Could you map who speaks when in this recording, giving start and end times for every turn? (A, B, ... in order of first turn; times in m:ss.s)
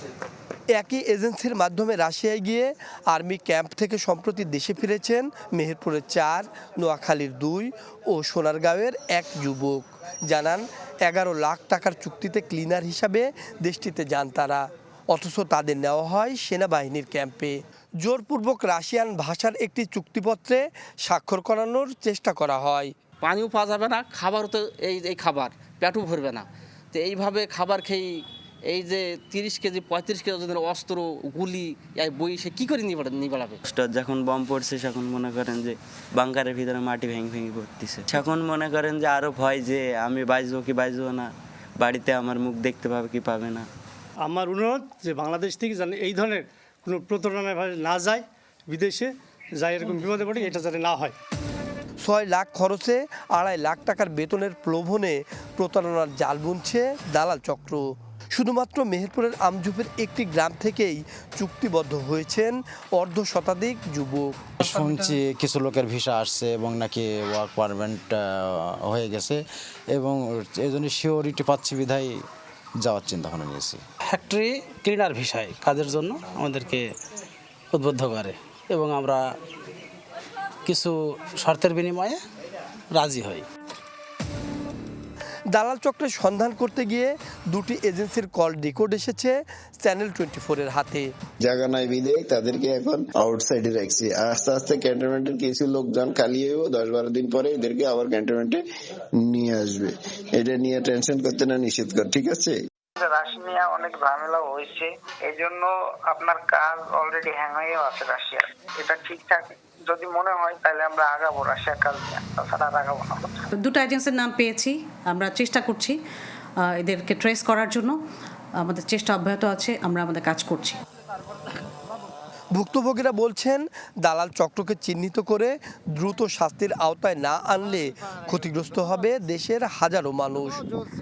0:00.7-0:22.9 A
0:23.2-0:33.6 B
0:33.6-0:43.7 C
0:44.2-0:51.1 D
0:52.0-1:04.4 A
1:04.6-1:12.2 E
1:12.8-1:13.8 E
1:14.1-1:16.8 F
1:17.8-1:19.2 F
1:20.7-1:22.2 F
1:23.0-1:23.4 F
1:25.5-1:31.1 A
1:31.4-1:38.6 G
1:39.2-1:42.6 G
1:43.0-1:53.5 H
1:53.5-1:56.0 I
1:56.6-1:58.0 I
1:58.6-2:00.8 I
2:02.5-2:10.6 A